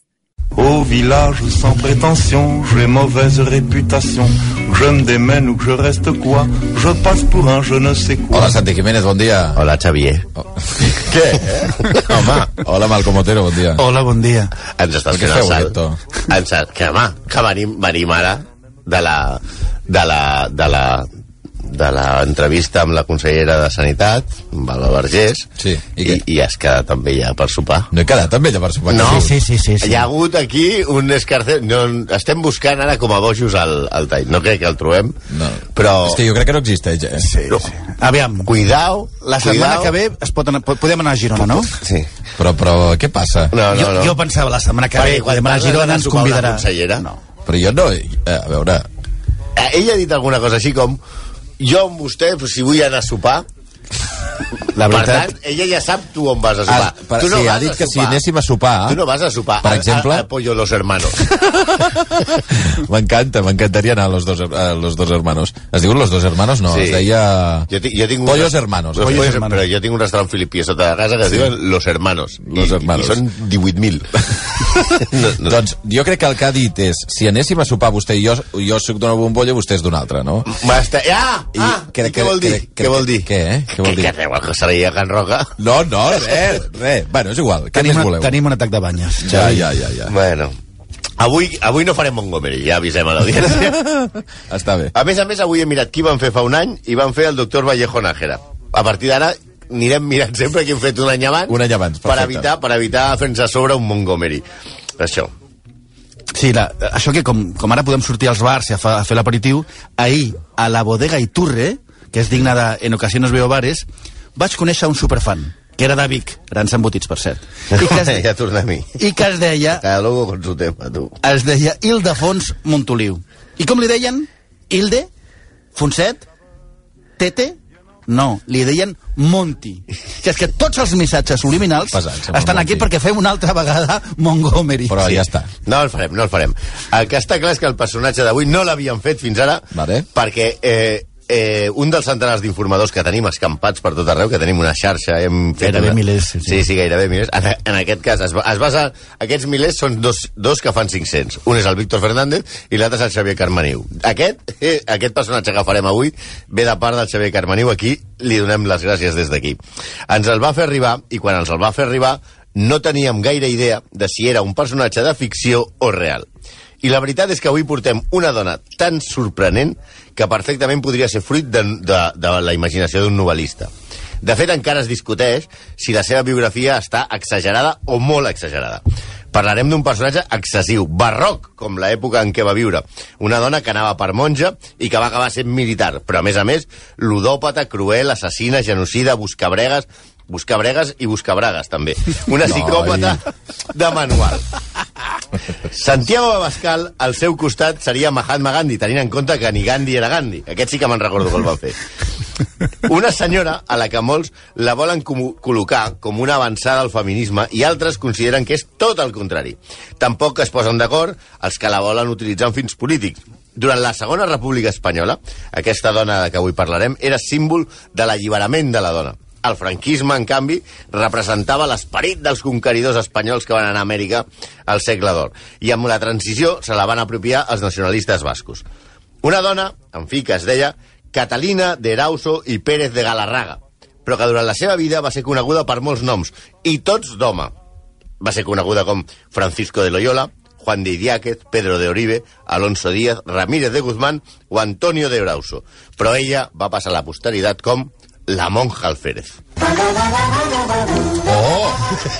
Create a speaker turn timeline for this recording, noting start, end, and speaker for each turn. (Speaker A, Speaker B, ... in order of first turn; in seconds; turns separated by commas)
Speaker A: 0.6-8.6, Speaker B: 8.3-9.6, Speaker C: 9.6-10.3, Speaker B: 10.6-12.0, Speaker C: 11.1-12.5, Speaker B: 12.5-13.8, Speaker D: 13.8-14.5, Speaker C: 14.7-21.1, Speaker B: 15.1-16.0, Speaker C: 21.6-25.5, Speaker B: 25.6-26.2, Speaker C: 26.0-27.9, Speaker B: 27.9-29.3, Speaker C: 28.9-35.2, Speaker D: 29.0-30.1, Speaker B: 35.3-37.3, Speaker C: 35.7-36.2, Speaker D: 37.2-38.5, Speaker C: 38.4-39.9, Speaker D: 39.2-41.7, Speaker C: 41.5-42.1, Speaker B: 42.4-43.5, Speaker C: 43.5-44.1, Speaker D: 43.7-47.2, Speaker C: 45.0-47.0, Speaker B: 47.4-48.9, Speaker C: 49.5-51.0, Speaker C: 51.6-53.5, Speaker D: 54.7-55.3, Speaker C: 54.9-58.2, Speaker B: 56.7-59.0, Speaker C: 58.9-61.3, Speaker B: 59.6-60.3, Speaker B: 61.2-67.7, Speaker C: 66.7-67.1, Speaker C: 67.7-75.6, Speaker B: 68.2-69.3, Speaker D: 69.0-69.6, Speaker B: 72.4-73.2, Speaker B: 74.2-80.6, Speaker C: 80.5-83.3, Speaker B: 81.5-84.1, Speaker C: 83.8-85.5, Speaker B: 85.6-88.3, Speaker D: 87.7-89.6, Speaker B: 89.2-90.1, Speaker C: 90.1-90.5, Speaker C: 91.2-93.8, Speaker B: 93.7-94.9, Speaker C: 94.9-104.4, Speaker B: 101.5-102.5, Speaker C: 105.0-105.3, Speaker D: 106.3-118.2, Speaker C: 117.7-119.0, Speaker D: 119.0-119.8, Speaker C: 119.8-121.2, Speaker D: 121.2-125.1, Speaker D: 125.7-126.2, Speaker D: 127.2-135.2, Speaker B: 131.9-132.9, Speaker B: 134.9-135.5, Speaker C: 135.6-166.3, Speaker B: 139.7-140.1, Speaker D: 145.6-146.6, Speaker C: 166.8-173.7, Speaker C: 174.2-194.4, Speaker B: 192.4-193.2, Speaker C: 195.7-201.8, Speaker C: 202.8-228.6, Speaker C: 229.2-237.5, Speaker C: 238.2-249.4, Speaker B: 251.2-251.8